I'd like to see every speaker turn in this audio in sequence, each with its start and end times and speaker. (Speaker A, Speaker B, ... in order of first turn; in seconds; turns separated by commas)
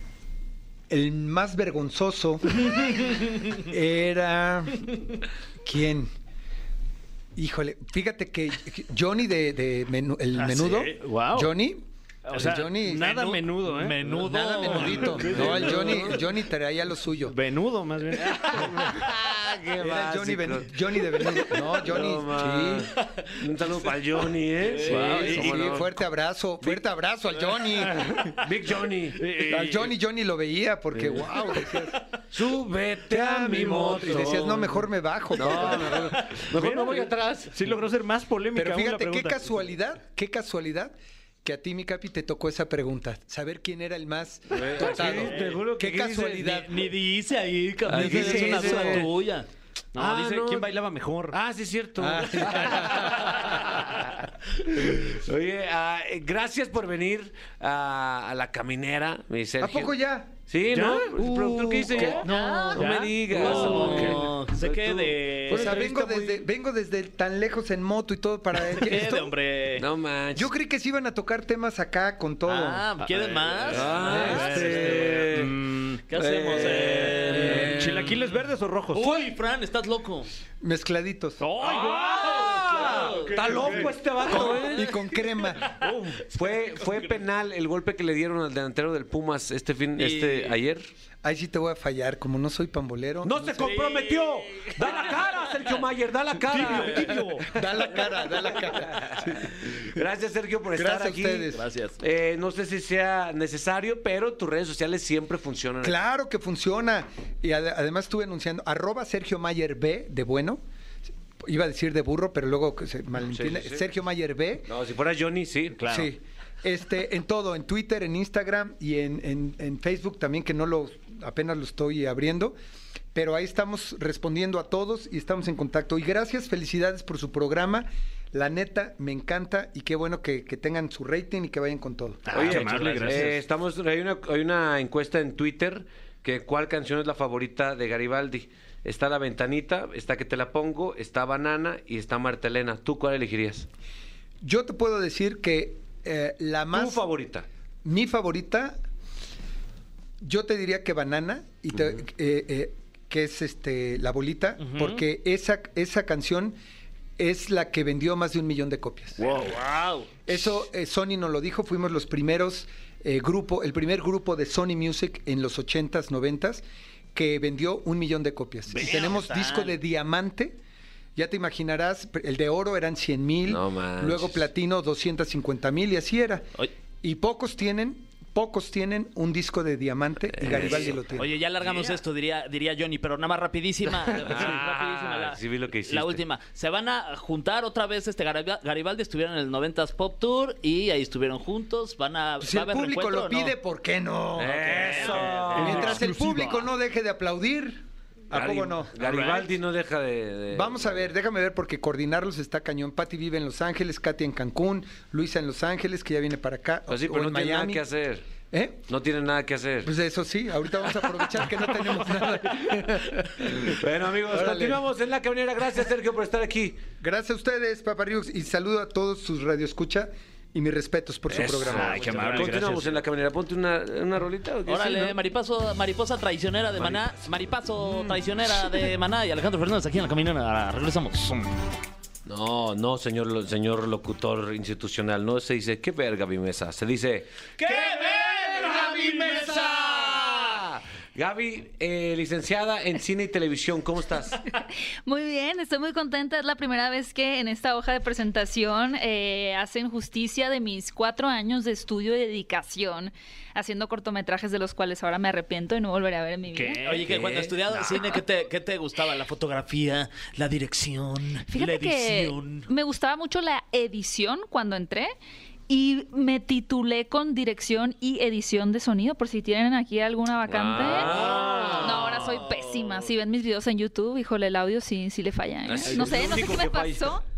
Speaker A: 0.9-5.0, Speaker A: 5.6-6.1, Speaker A: 7.4-11.8, Speaker B: 10.4-11.5, Speaker C: 12.3-15.6, Speaker B: 12.3-16.1, Speaker A: 12.3-13.4, Speaker A: 14.1-17.4, Speaker D: 15.2-16.2, Speaker B: 17.3-19.0, Speaker D: 18.2-26.0, Speaker A: 19.8-22.9, Speaker C: 24.6-25.5, Speaker B: 24.9-25.3, Speaker A: 24.9-28.2, Speaker B: 27.9-28.4, Speaker D: 28.2-29.8, Speaker B: 29.2-29.9, Speaker A: 29.5-32.0, Speaker D: 30.9-31.2, Speaker D: 32.3-34.7, Speaker A: 33.1-36.1, Speaker D: 35.3-37.5, Speaker B: 35.9-39.5, Speaker A: 38.5-46.7, Speaker D: 44.5-46.7, Speaker C: 44.9-45.5, Speaker C: 46.5-49.5, Speaker D: 47.9-49.1, Speaker A: 48.0-48.8, Speaker B: 48.6-49.0, Speaker B: 49.9-51.4, Speaker D: 50.0-50.7, Speaker D: 51.3-54.2, Speaker A: 52.0-53.5, Speaker D: 54.7-60.0, Speaker A: 59.6-60.3, Speaker D: 60.5-64.2, Speaker B: 60.7-62.3, Speaker A: 61.5-62.9, Speaker C: 62.3-65.8, Speaker B: 63.4-65.2, Speaker A: 63.5-64.1, Speaker D: 65.5-66.4, Speaker A: 65.5-69.3, Speaker C: 68.5-69.8, Speaker D: 69.8-70.5, Speaker A: 70.3-72.9, Speaker C: 72.5-75.3, Speaker B: 73.1-76.0, Speaker D: 73.7-75.5, Speaker A: 74.1-74.6, Speaker C: 76.1-77.8, Speaker D: 76.2-78.2, Speaker B: 76.5-79.2, Speaker C: 78.9-80.3, Speaker A: 80.6-81.4, Speaker B: 81.4-83.9, Speaker C: 81.5-84.7, Speaker D: 81.6-84.9, Speaker A: 84.2-85.6, Speaker B: 85.8-86.3, Speaker D: 86.2-90.9, Speaker C: 90.0-90.6, Speaker A: 91.2-93.8, Speaker D: 93.2-97.4, Speaker B: 96.5-97.5, Speaker A: 97.5-99.8, Speaker D: 98.7-106.0, Speaker A: 100.7-101.6, Speaker C: 101.5-102.0, Speaker A: 105.8-110.6, Speaker A: 111.4-114.7, Speaker D: 113.3-113.8, Speaker D: 114.7-116.0, Speaker A: 115.9-122.6, Speaker A: 123.1-132.3, Speaker C: 132.3-133.3, Speaker B: 132.3-133.4, Speaker D: 132.3-143.7, Speaker A: 144.4-147.0, Speaker D: 146.7-147.5, Speaker A: 147.8-148.8, Speaker A: 150.2-156.6, Speaker C: 154.6-155.0, Speaker A: 157.2-159.5, Speaker C: 159.2-160.1, Speaker A: 160.3-166.6, Speaker A: 167.1-170.6, Speaker C: 168.7-169.8, Speaker A: 171.2-176.5, Speaker D: 173.5-174.4, Speaker A: 177.0-181.3, Speaker D: 180.4-181.0, Speaker C: 180.6-193.5, Speaker D: 184.1-186.2, Speaker A: 192.4-199.0, Speaker D: 194.4-196.0, Speaker C: 194.7-196.6, Speaker D: 198.3-201.1, Speaker A: 200.5-207.8, Speaker D: 206.9-208.3, Speaker A: 208.5-208.9, Speaker D: 208.9-209.9, Speaker A: 209.8-213.8, Speaker D: 213.5-216.8, Speaker A: 214.3-214.8, Speaker A: 217.0-222.0, Speaker D: 221.3-225.2, Speaker C: 221.7-222.8, Speaker B: 221.8-222.8, Speaker C: 224.7-231.5, Speaker D: 226.8-227.3, Speaker D: 232.3-244.4, Speaker E: 245.1-257.0, Speaker B: 256.6-257.1, Speaker C: 256.8-262.7, Speaker D: 257.1-257.5, Speaker E: 261.5-265.2, Speaker E: 265.7-271.2, Speaker D: 270.5-272.2, Speaker C: 270.9-273.1, Speaker E: 271.8-277.2, Speaker D: 275.7-277.2, Speaker B: 275.9-276.3